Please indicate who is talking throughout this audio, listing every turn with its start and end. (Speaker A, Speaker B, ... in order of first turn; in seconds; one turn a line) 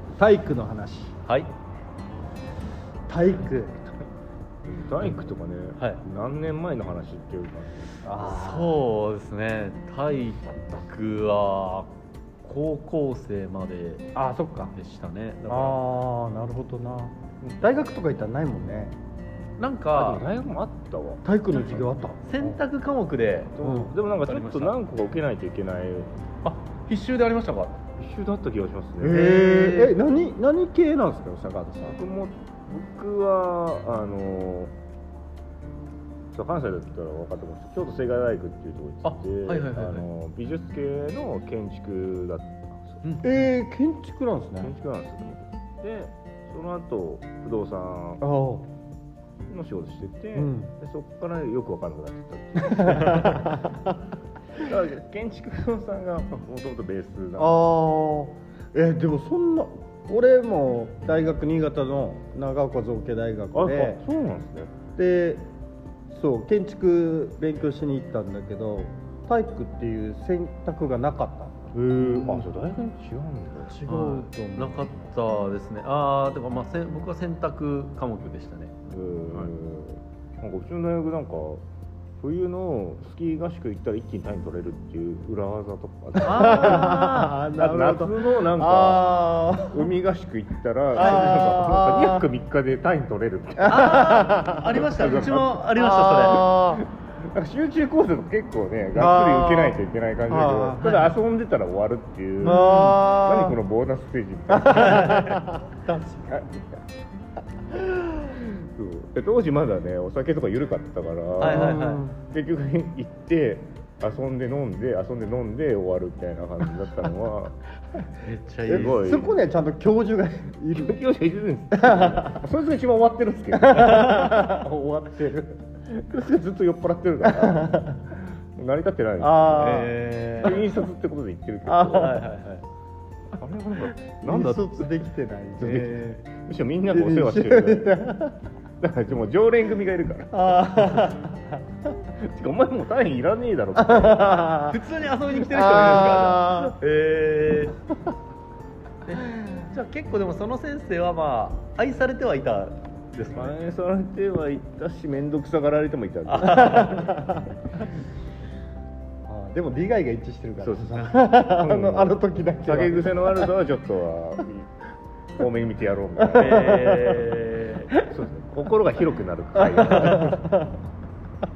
Speaker A: 0.2-1.1
Speaker B: 1.3-1.5
Speaker A: 3.1-4.0
Speaker C: 4.7-7.9
Speaker A: 8.0-8.8
Speaker B: 8.2-11.9
Speaker B: 12.4-14.1
Speaker A: 14.2-14.8
Speaker B: 14.8-15.8
Speaker A: 15.5-19.0
Speaker B: 19.6-20.2
Speaker C: 19.9-21.8
Speaker A: 21.2-22.6
Speaker B: 22.2-23.5
Speaker C: 23.6-26.1
Speaker A: 23.6-23.9
Speaker B: 24.2-24.8
Speaker B: 26.4-27.8
Speaker C: 28.0-29.3
Speaker A: 29.0-32.0
Speaker B: 29.0-29.9
Speaker C: 31.8-34.7
Speaker C: 36.3-43.0
Speaker B: 39.0-40.1
Speaker A: 43.2-44.7
Speaker C: 44.6-48.2
Speaker A: 48.2-48.7
Speaker C: 49.5-53.6
Speaker A: 50.4-50.7
Speaker A: 52.6-54.0
Speaker C: 54.5-57.6
Speaker A: 57.4-64.0
Speaker C: 63.5-64.8
Speaker A: 65.0-65.5
Speaker A: 66.1-72.5
Speaker C: 71.7-73.8
Speaker A: 73.6-75.1
Speaker B: 73.9-78.8
Speaker C: 78.9-81.6
Speaker C: 82.2-94.2
Speaker B: 86.2-87.1
Speaker A: 86.2-89.9
Speaker A: 90.9-92.3
Speaker B: 91.0-91.4
Speaker A: 93.6-94.8
Speaker B: 93.7-96.5
Speaker C: 94.8-95.7
Speaker A: 95.8-96.8
Speaker C: 96.4-105.5
Speaker A: 99.0-101.1
Speaker A: 102.4-103.6
Speaker B: 102.5-102.9
Speaker A: 104.5-106.8
Speaker B: 104.9-105.3
Speaker A: 107.7-108.3
Speaker C: 108.5-117.6
Speaker B: 111.4-112.0
Speaker A: 111.4-112.2
Speaker B: 118.2-119.2
Speaker C: 118.7-119.3
Speaker A: 118.7-121.0
Speaker C: 120.7-124.4
Speaker A: 121.7-122.4
Speaker A: 123.5-125.7
Speaker C: 125.9-127.8
Speaker A: 127.2-128.1
Speaker C: 128.6-132.2
Speaker A: 129.2-130.0
Speaker B: 129.5-130.7
Speaker A: 131.7-132.2
Speaker B: 131.9-132.7
Speaker C: 133.3-135.0
Speaker A: 134.1-136.2
Speaker C: 135.6-138.1
Speaker A: 136.9-138.4
Speaker C: 138.8-141.1
Speaker A: 140.3-141.7
Speaker C: 142.2-144.6
Speaker A: 143.8-144.8
Speaker B: 144.7-147.8
Speaker A: 145.4-146.8
Speaker B: 149.1-153.6
Speaker C: 153.3-157.2
Speaker B: 156.3-157.1
Speaker A: 156.6-157.5
Speaker A: 159.3-163.5
Speaker C: 160.6-164.7
Speaker C: 165.4-167.3
Speaker A: 166.2-167.2
Speaker B: 166.3-167.9
Speaker C: 167.9-170.5
Speaker A: 169.6-170.8
Speaker B: 169.8-170.3